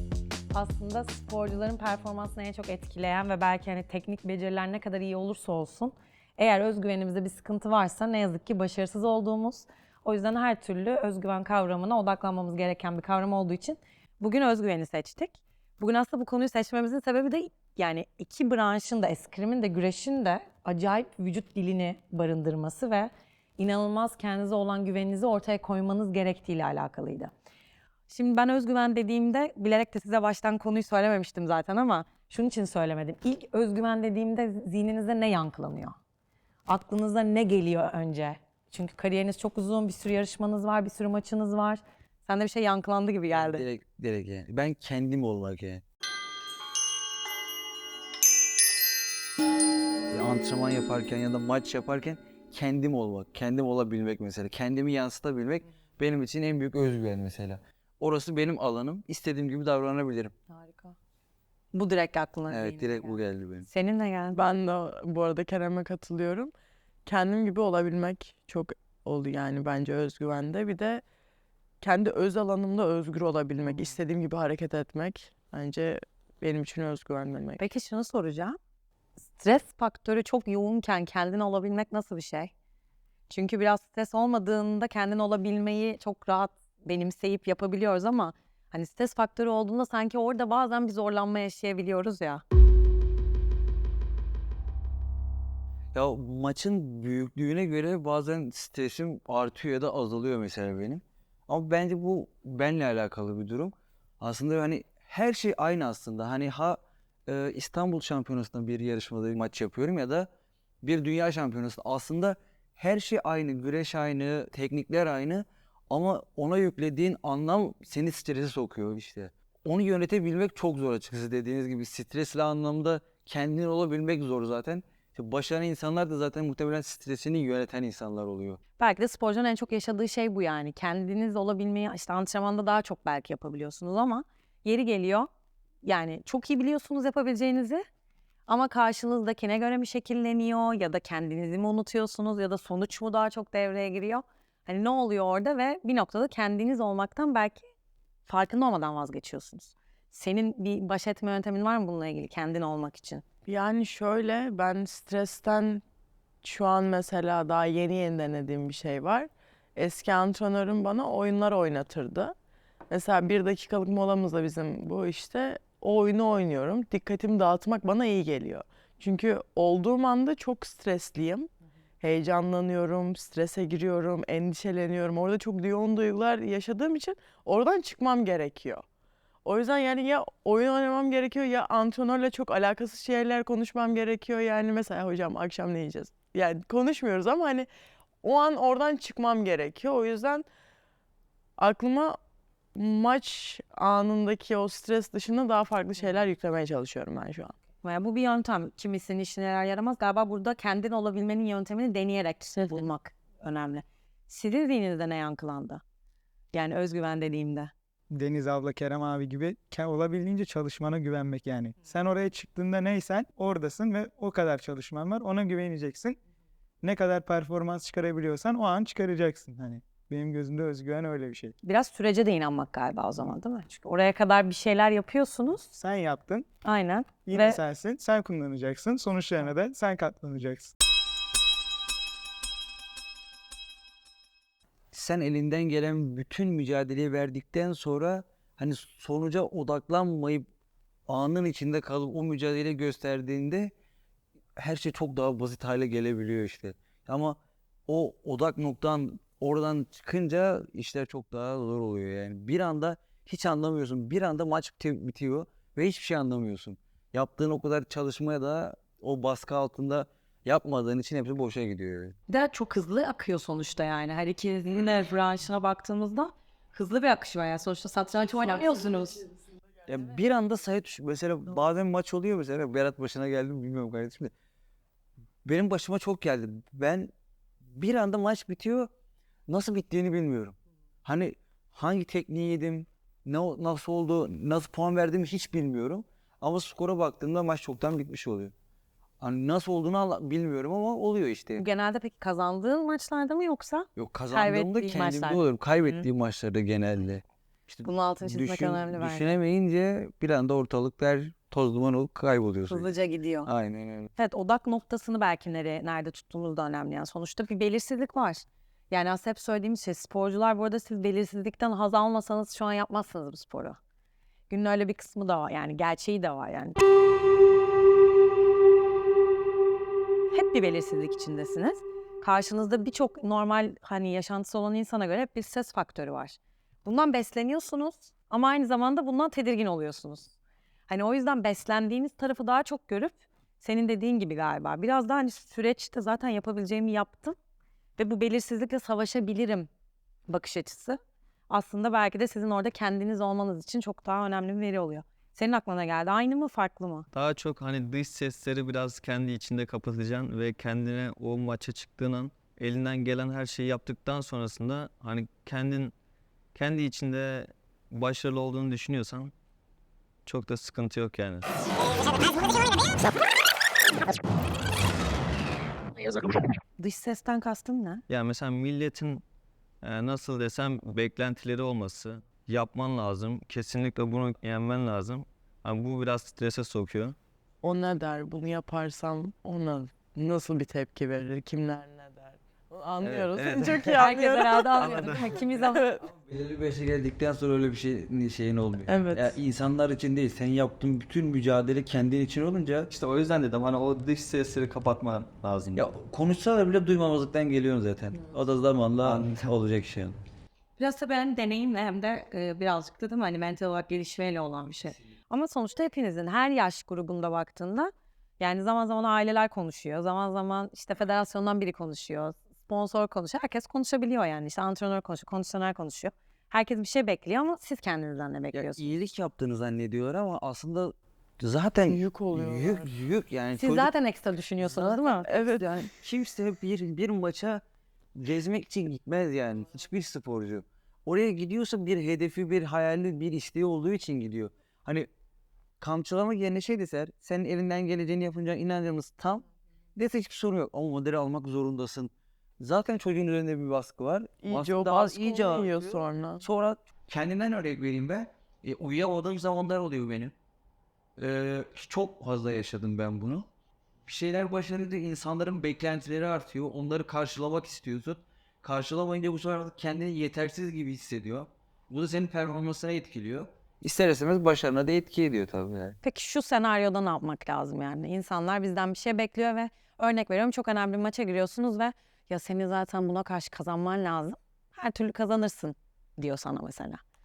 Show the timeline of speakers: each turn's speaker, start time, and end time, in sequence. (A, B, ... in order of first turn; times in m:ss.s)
0:00.5-0:27.3 A
0:28.1-0:36.0 A
0:36.7-0:43.7 A
0:43.3-0:45.8 B
0:50.1-1:00.3 B
1:00.5-1:01.0 A
1:01.7-1:04.4 A
1:02.5-1:03.7 B
1:04.4-1:06.5 C
1:07.1-1:11.0 C
1:11.8-1:17.7 C
1:17.6-1:18.6 A
1:19.4-1:22.5 A
1:23.3-1:32.4 A
1:35.9-1:50.3 B
1:50.8-2:08.6 B
2:08.8-2:15.3 A
2:15.8-2:17.8 A
2:18.5-2:27.6 A
2:28.3-2:33.2 A
2:33.5-2:35.8 C
2:36.4-2:42.4 C
2:42.9-2:51.5 C
2:52.0-2:58.8 C
2:59.4-3:07.7 C
3:08.2-3:10.5 C
3:11.6-3:12.2 C
3:12.8-3:17.6 C
3:17.8-3:25.8 A
3:26.5-3:27.7 A
3:28.1-3:36.2 D
3:36.8-3:41.6 D
3:41.6-3:45.7 A
3:45.7-3:46.5 D
3:46.6-3:47.6 A
3:47.3-3:50.7 D
3:54.9-4:00.5 B
4:01.1-4:03.7 B
4:04.6-4:22.2 B
4:22.3-4:29.3 A
4:29.9-4:34.3 B
4:35.4-4:37.1 B
4:37.7-4:38.9 B
4:39.5-4:48.5 B
4:49.2-4:51.6 B
4:51.6-4:56.0 A
4:54.0-5:02.9 B
4:57.8-4:59.3 A
5:02.7-5:03.5 A
5:03.5-5:04.1 B
5:04.2-5:13.8 A
5:14.5-5:16.8 A
5:20.3-5:30.3 A
5:30.9-5:37.4 A
5:38.0-5:39.7 A
5:40.3-5:41.0 A
5:41.5-5:47.1 A
5:47.1-5:55.9 E
5:56.6-5:59.3 E
6:00.3-6:01.5 E
6:06.8-6:08.0 A
6:08.1-6:09.2 E
6:09.8-6:17.2 E
6:17.6-6:26.0 C
6:23.0-6:24.0 B
6:23.9-6:25.8 A
6:24.8-6:32.9 B
6:24.9-6:25.4 E
6:28.9-6:29.4 C
6:32.9-6:35.8 E
6:35.8-6:40.2 B
6:40.8-6:59.0 A
6:58.5-7:03.9 B
7:01.9-7:02.9 C
7:03.6-7:05.3 A
7:04.7-7:07.6 B
7:05.2-7:05.9 C
7:08.2-7:15.1 B
7:15.8-7:19.4 B
7:20.0-7:30.3 B
7:24.4-7:26.5 C
7:31.2-7:33.5 B
7:34.1-7:46.0 B
7:46.0-7:57.0 A